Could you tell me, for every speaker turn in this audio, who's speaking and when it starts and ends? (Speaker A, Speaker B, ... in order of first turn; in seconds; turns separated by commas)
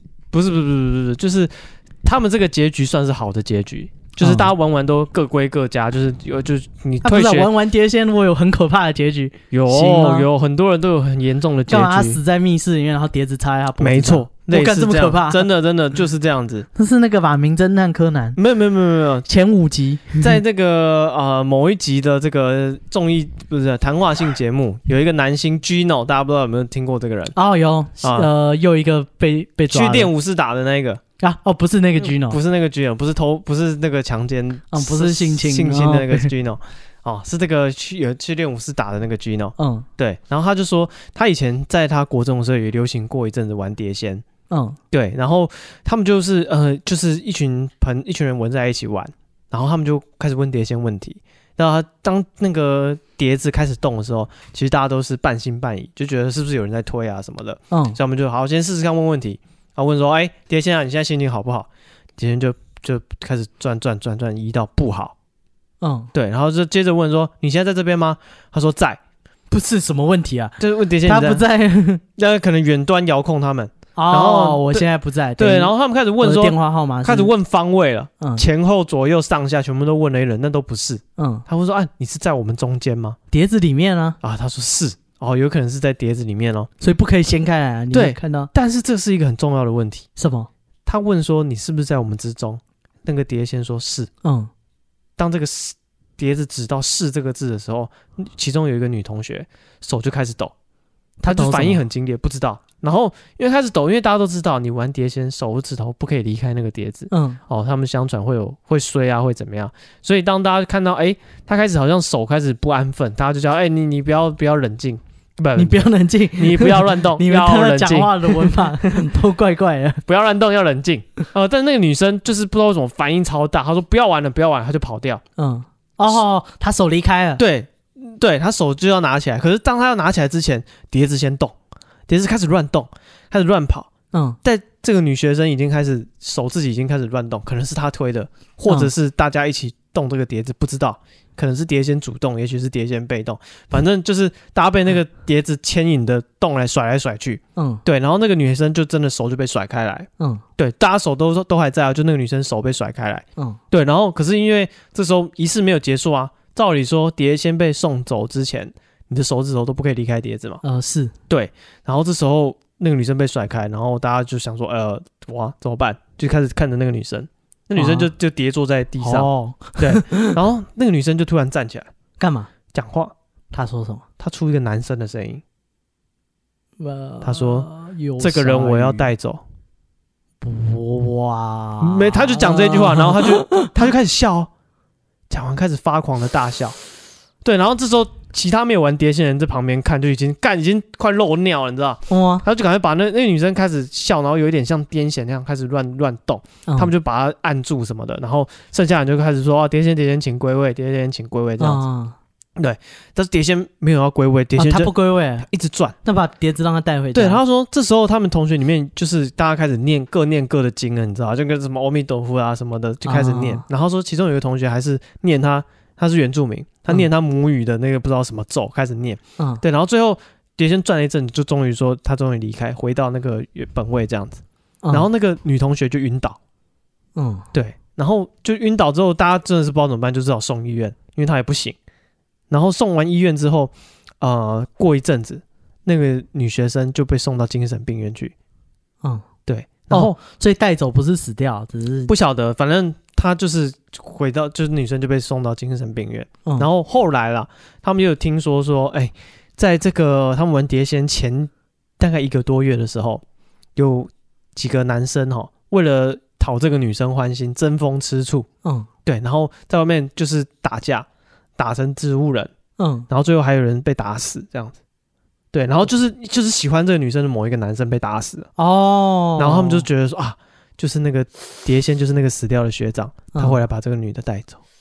Speaker A: 0.3-7.5, Speaker B: 4.2-4.5, Speaker B: 7.0-10.3, Speaker A: 9.5-12.2, Speaker B: 11.7-15.5, Speaker A: 13.8-16.7, Speaker B: 16.7-18.4, Speaker A: 18.4-19.3, Speaker B: 19.2-20.3, Speaker A: 20.2-27.3, Speaker B: 27.3-30.1, Speaker A: 28.0-28.3, Speaker A: 29.7-31.0, Speaker B: 31.2-32.4, Speaker A: 32.0-44.2, Speaker B: 34.7-36.3, Speaker B: 39.6-39.9, Speaker B: 44.5-44.8, Speaker A: 44.9-65.1, Speaker B: 57.7-58.0, Speaker B: 65.8-66.1, Speaker A: 66.1-69.0, Speaker B: 69.5-72.0, Speaker A: 70.6-71.4, Speaker A: 72.2-74.8, Speaker B: 74.0-77.3, Speaker A: 75.3-83.2, Speaker B: 78.2-78.5, Speaker B: 81.2-81.4, Speaker B: 83.3-84.2, Speaker A: 84.2-86.7, Speaker B: 86.8-88.5, Speaker A: 87.9-90.1, Speaker B: 90.2-90.5, Speaker A: 90.8-94.1, Speaker B: 94.2-94.5, Speaker A: 95.2-100.5, Speaker B: 101.2-101.8, Speaker A: 101.2-118.9, Speaker B: 107.1-107.4, Speaker B: 115.5-120.0, Speaker A: 120.1-125.2, Speaker B: 125.4-127.4, Speaker A: 127.4-131.5, Speaker A: 132.1-133.9, Speaker B: 134.1-134.4, Speaker A: 134.4-160.6, Speaker B: 147.6-147.8, Speaker B: 160.6-161.1, Speaker A: 161.3-171.9, Speaker B: 167.8-168.1, Speaker B: 169.0-170.4, Speaker B: 172.2-172.5, Speaker A: 172.7-173.1, Speaker B: 173.5-174.0, Speaker A: 174.2-175.4, Speaker B: 176.8-179.1, Speaker A: 177.2-177.7, Speaker A: 178.2-179.4, Speaker B: 180.4-183.7, Speaker A: 181.8-184.5, Speaker A: 185.3-186.8, Speaker A: 187.4-201.8, Speaker B: 192.1-192.4, Speaker B: 196.7-196.9, Speaker B: 201.6-202.2, Speaker A: 202.6-205.9, Speaker B: 204.6-205.5, Speaker B: 206.0-207.4, Speaker A: 207.1-226.4, Speaker B: 213.0-213.6, Speaker B: 219.4-219.6, Speaker B: 224.8-225.1, Speaker B: 227.2-227.5, Speaker A: 227.5-231.8, Speaker A: 232.5-238.3, Speaker A: 239.4-240.1, Speaker B: 239.9-242.1, Speaker A: 242.1-253.2, Speaker A: 253.8-258.5, Speaker A: 259.0-261.1, Speaker A: 261.6-262.5, Speaker B: 262.8-263.1, Speaker A: 263.1-264.8, Speaker A: 265.5-268.5, Speaker B: 268.6-269.9, Speaker A: 269.4-274.6, Speaker B: 273.3-273.6